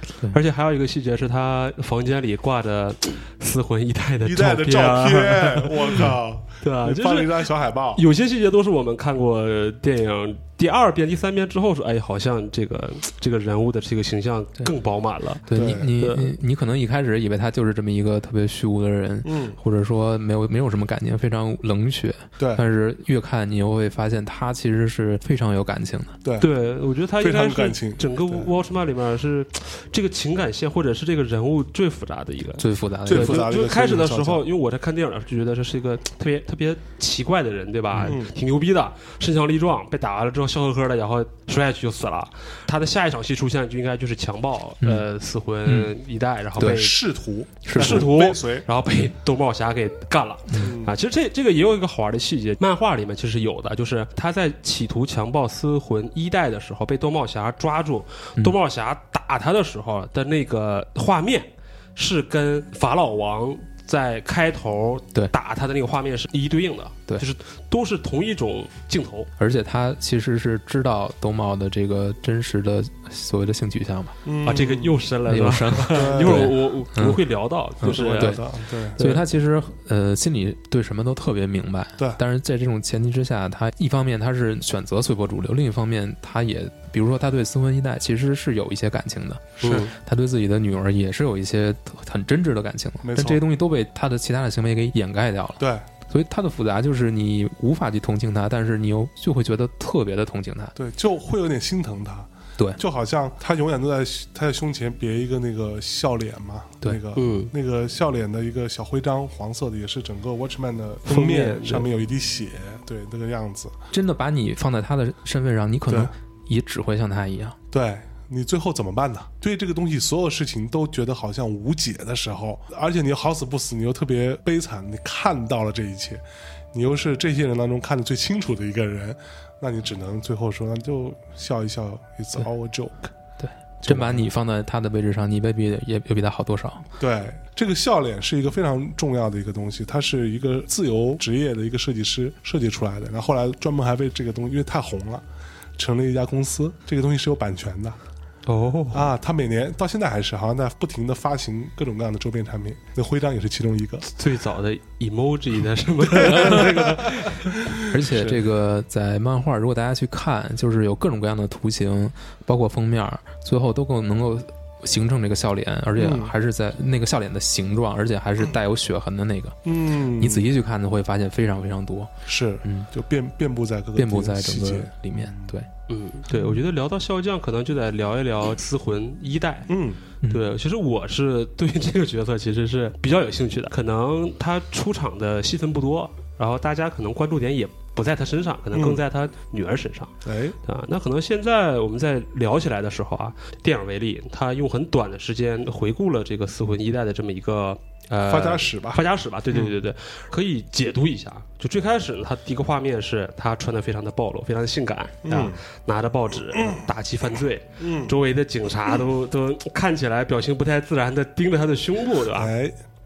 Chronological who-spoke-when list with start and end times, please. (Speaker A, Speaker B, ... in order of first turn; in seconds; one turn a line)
Speaker A: 0.3-15.4
Speaker B: 4.2-8.0
Speaker C: 15.5-26.1
Speaker B: 15.5-15.9
Speaker A: 16.0-16.3
Speaker B: 19.2-19.6
Speaker B: 22.4-22.6
Speaker B: 26.2-26.5
Speaker A: 26.4-47.0
Speaker B: 27.2-28.5
Speaker C: 32.6-33.5
Speaker B: 33.1-34.5
Speaker B: 38.0-38.3
Speaker C: 45.7-45.9
Speaker B: 46.6-48.7
Speaker C: 47.6-48.1
Speaker A: 47.7-69.3
Speaker B: 50.6-50.9
Speaker C: 69.4-74.2
Speaker B: 74.2-75.0
Speaker A: 74.4-78.4
Speaker C: 75.3-77.2
Speaker B: 75.9-76.5
Speaker C: 77.8-78.4
Speaker B: 77.8-79.0
Speaker A: 79.0-79.2
Speaker C: 79.0-100.7
Speaker B: 89.6-89.9
Speaker A: 89.6-89.9
Speaker B: 93.0-93.4
Speaker B: 95.6-95.9
Speaker B: 100.8-113.8
Speaker A: 107.2-107.5
Speaker A: 111.1-111.9
Speaker C: 113.9-117.6
Speaker B: 117.7-133.1
Speaker C: 133.4-136.8
Speaker B: 133.8-134.3
Speaker B: 137.0-145.2
Speaker B: 145.8-148.0
Speaker A: 148.5-149.1
Speaker B: 148.9-154.1
Speaker A: 154.1-157.5
Speaker B: 156.2-158.4
Speaker C: 157.9-169.6
Speaker B: 166.0-166.3
Speaker B: 169.7-170.5
Speaker C: 170.2-172.1
Speaker B: 172.3-175.5
Speaker C: 172.6-172.9
Speaker C: 174.0-175.7
Speaker A: 175.9-179.7
Speaker B: 179.7-180.0
Speaker A: 180.3-190.1
Speaker B: 188.7-189.0
Speaker B: 190.2-190.6
Speaker A: 190.7-212.5
Speaker B: 198.2-199.8
Speaker B: 205.2-205.6
Speaker B: 206.5-206.8
Speaker B: 207.8-208.2
Speaker B: 212.3-212.8